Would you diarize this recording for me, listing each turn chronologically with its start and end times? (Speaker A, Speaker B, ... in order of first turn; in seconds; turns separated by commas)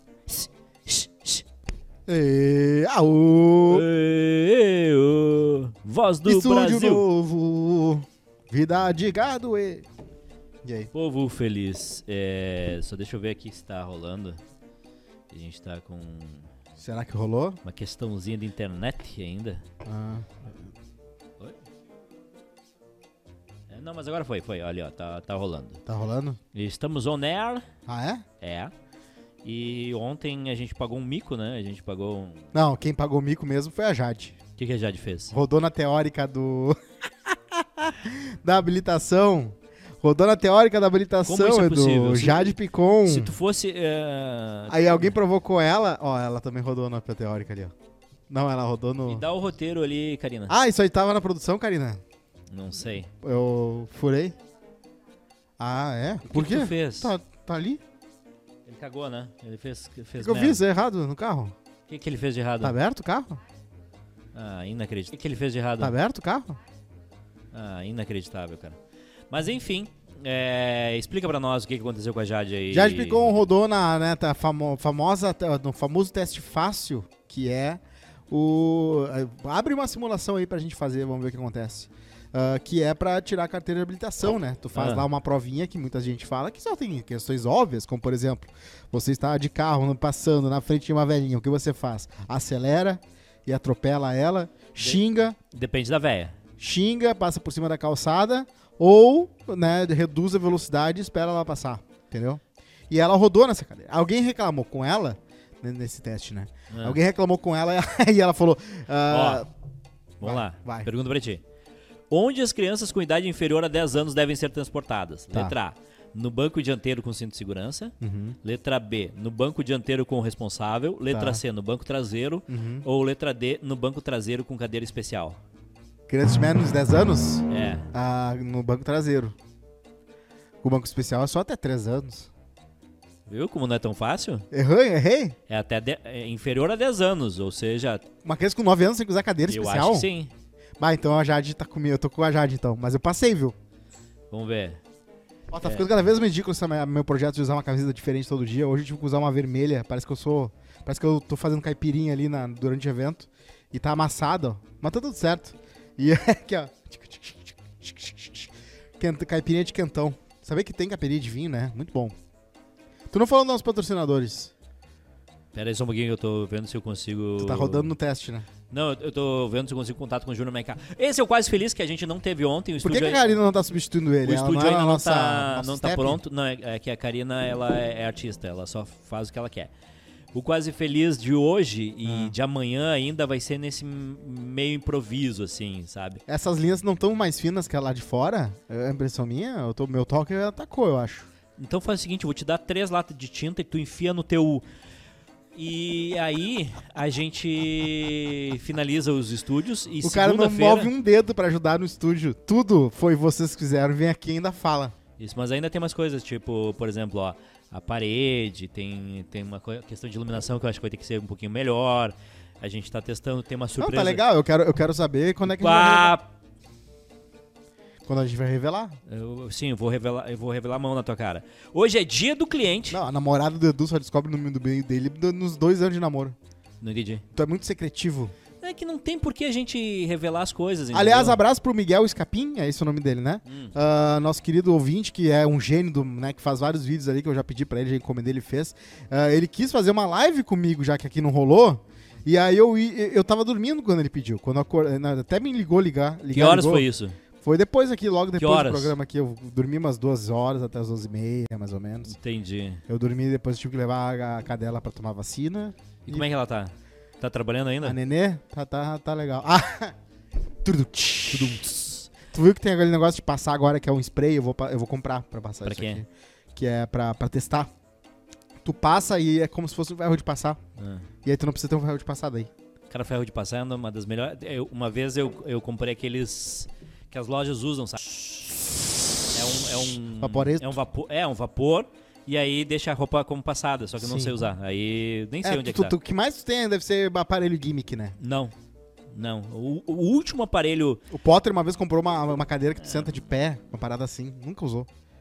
Speaker A: 0.3-1.4, Speaker B: 2.1-3.8, Speaker A: 3.7-7.0, Speaker B: 6.2-9.8, Speaker B: 10.6-10.9, Speaker A: 10.9-14.4, Speaker A: 15.3-16.5, Speaker B: 16.8-17.6, Speaker A: 17.6-19.6, Speaker B: 19.8-20.7, Speaker A: 23.7-25.8, Speaker B: 25.9-26.4, Speaker A: 26.5-27.6, Speaker B: 27.9-28.2, Speaker A: 28.4-28.7, Speaker A: 29.4-32.5, Speaker B: 32.5-34.4, Speaker A: 34.6-35.3, Speaker B: 35.3-43.3, Speaker A: 41.2-45.2, Speaker B: 44.7-47.7, Speaker B: 48.3-49.2, Speaker A: 49.0-50.5, Speaker B: 50.5-52.0, Speaker A: 52.5-53.1, Speaker B: 53.2-54.4, Speaker B: 55.6-57.8, Speaker A: 56.2-57.1, Speaker A: 58.6-60.6, Speaker B: 60.2-61.5, Speaker A: 61.9-62.7, Speaker B: 62.6-63.4, Speaker A: 64.3-65.9, Speaker B: 65.8-66.6, Speaker A: 67.5-68.8, Speaker A: 69.3-73.4, Speaker B: 72.7-95.4, Speaker A: 84.7-85.1, Speaker A: 94.8-96.3, Speaker B: 96.6-109.5, Speaker A: 106.7-107.0, Speaker A: 109.1-109.4, Speaker A: 110.2-111.4, Speaker B: 110.2-110.9, Speaker A: 112.1-125.4, Speaker B: 118.0-118.4, Speaker B: 121.1-121.4, Speaker B: 122.5-122.8, Speaker B: 126.1-129.3, Speaker A: 127.5-127.9, Speaker B: 130.6-132.3, Speaker A: 133.2-134.5, Speaker B: 134.5-135.3, Speaker A: 135.5-138.0, Speaker B: 138.2-140.1, Speaker A: 139.5-140.3, Speaker B: 140.8-143.5, Speaker A: 144.3-144.8, Speaker B: 145.5-162.1, Speaker B: 163.1-164.5, Speaker A: 165.5-167.9, Speaker B: 167.4-168.4, Speaker A: 168.7-173.3, Speaker B: 172.8-176.2, Speaker A: 174.2-179.7, Speaker A: 180.3-186.2, Speaker B: 182.0-182.3, Speaker B: 186.3-191.3, Speaker A: 191.6-194.6, Speaker A: 195.5-200.9, Speaker B: 200.0-204.9, Speaker A: 205.2-214.2, Speaker B: 213.8-216.1, Speaker A: 215.5-216.3, Speaker B: 218.0-219.0, Speaker A: 219.1-223.0, Speaker B: 222.9-226.3, Speaker A: 226.8-227.2, Speaker B: 227.3-228.3, Speaker A: 228.6-231.4, Speaker B: 230.9-246.8, Speaker A: 233.4-233.7, Speaker A: 246.3-247.2, Speaker B: 247.4-252.1, Speaker A: 248.3-248.9, Speaker A: 252.0-252.8, Speaker B: 252.9-256.2, Speaker A: 256.1-258.0, Speaker B: 257.8-259.9, Speaker B: 260.6-267.7, Speaker A: 261.3-262.1, Speaker A: 265.6-266.0, Speaker B: 268.6-270.6, Speaker A: 270.8-271.1, Speaker B: 271.2-272.5, Speaker A: 272.9-278.6, Speaker A: 279.3-285.9, Speaker B: 280.2-280.8, Speaker B: 284.0-284.3, Speaker B: 285.4-288.2, Speaker A: 288.2-288.5, Speaker A: 289.1-291.0, Speaker B: 291.1-294.9